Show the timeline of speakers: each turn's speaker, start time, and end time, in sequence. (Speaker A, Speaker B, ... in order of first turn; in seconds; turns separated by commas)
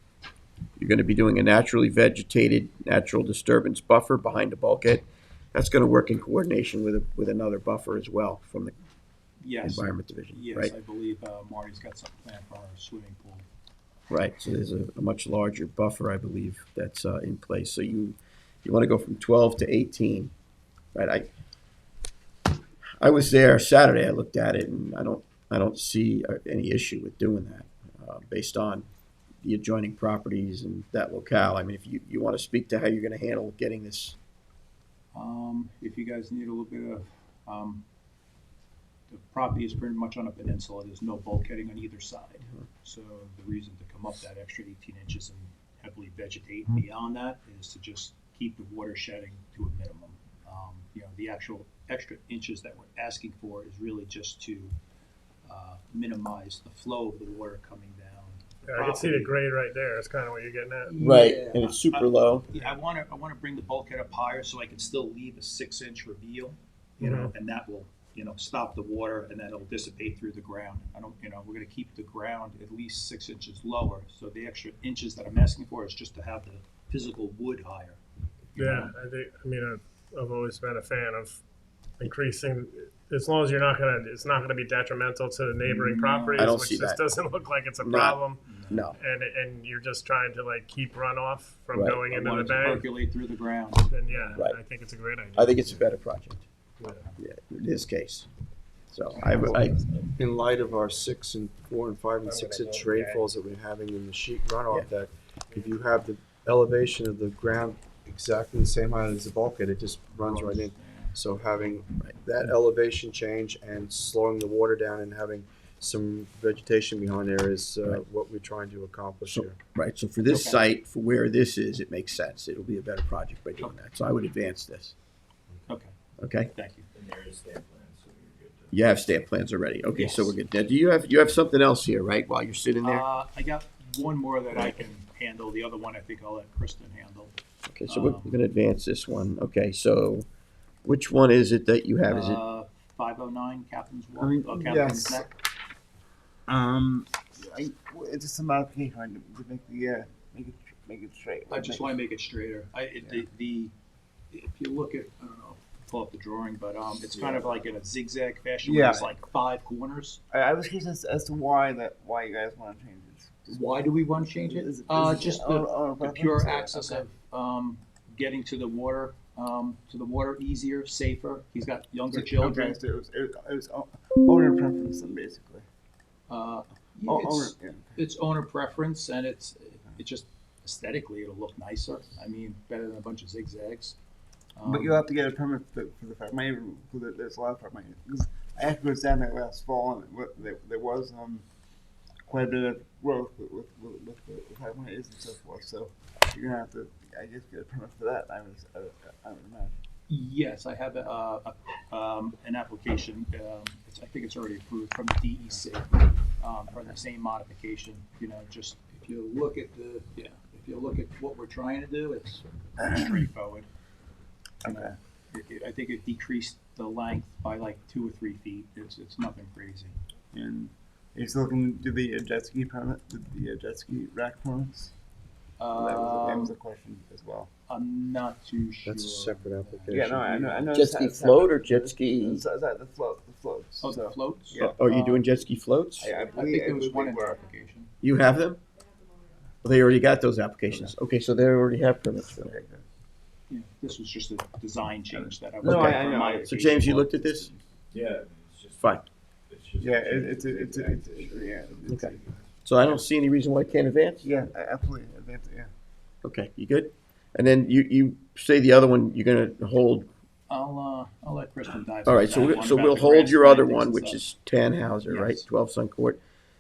Speaker A: 0.8-8.8, Speaker B: 9.4-13.5, Speaker A: 9.6-10.7, Speaker A: 14.1-20.3, Speaker A: 20.9-21.3, Speaker A: 23.0-28.9, Speaker A: 29.4-34.2, Speaker B: 35.1-37.8, Speaker B: 39.1-54.8, Speaker B: 55.5-59.4, Speaker C: 58.7-61.0, Speaker B: 60.9-78.0, Speaker A: 61.0-62.5, Speaker C: 67.0-67.3, Speaker B: 78.5-79.0, Speaker C: 78.6-81.4, Speaker C: 82.0-92.9, Speaker B: 85.7-86.6, Speaker A: 86.4-87.0, Speaker A: 87.8-89.0, Speaker B: 88.4-88.9, Speaker A: 91.7-92.0, Speaker B: 92.1-94.4, Speaker C: 93.9-95.8, Speaker A: 95.3-96.5, Speaker B: 96.9-97.2, Speaker A: 97.2-98.3, Speaker A: 98.9-99.8, Speaker D: 99.3-119.6, Speaker B: 110.2-111.2, Speaker A: 119.3-125.0, Speaker B: 120.2-120.7, Speaker B: 125.7-125.9, Speaker A: 126.2-126.5, Speaker B: 126.5-126.9, Speaker E: 126.9-129.0, Speaker A: 128.7-133.1, Speaker B: 129.9-130.4, Speaker B: 132.8-137.3, Speaker A: 137.7-140.3, Speaker B: 137.9-138.4, Speaker A: 140.8-142.4, Speaker B: 142.1-145.3, Speaker F: 144.2-145.3, Speaker F: 146.5-152.0, Speaker B: 151.5-153.7, Speaker B: 154.3-160.2, Speaker F: 157.1-157.7, Speaker F: 158.6-159.1, Speaker F: 160.3-167.0, Speaker B: 163.5-172.8, Speaker F: 172.1-175.6, Speaker B: 176.3-184.0, Speaker F: 177.1-178.0, Speaker B: 184.6-185.0, Speaker F: 184.7-191.4, Speaker F: 192.3-199.8, Speaker B: 200.1-213.7, Speaker F: 212.8-213.2, Speaker F: 214.6-214.9, Speaker B: 214.6-220.0, Speaker F: 220.3-224.9, Speaker B: 225.6-226.5, Speaker F: 225.7-227.5, Speaker B: 227.7-230.7, Speaker D: 228.8-230.4, Speaker F: 229.9-234.8, Speaker A: 230.7-232.4, Speaker B: 233.8-235.4, Speaker A: 234.6-236.1, Speaker F: 236.0-237.5, Speaker B: 236.3-237.9, Speaker A: 238.0-238.6, Speaker A: 239.6-242.5, Speaker F: 242.2-242.8, Speaker B: 243.5-247.1, Speaker F: 245.1-247.6, Speaker A: 245.6-247.5, Speaker E: 247.9-253.0, Speaker F: 249.8-252.2, Speaker A: 252.7-254.3, Speaker F: 254.2-255.7, Speaker A: 256.2-260.1, Speaker B: 260.5-264.2, Speaker A: 262.1-266.2, Speaker B: 265.1-265.4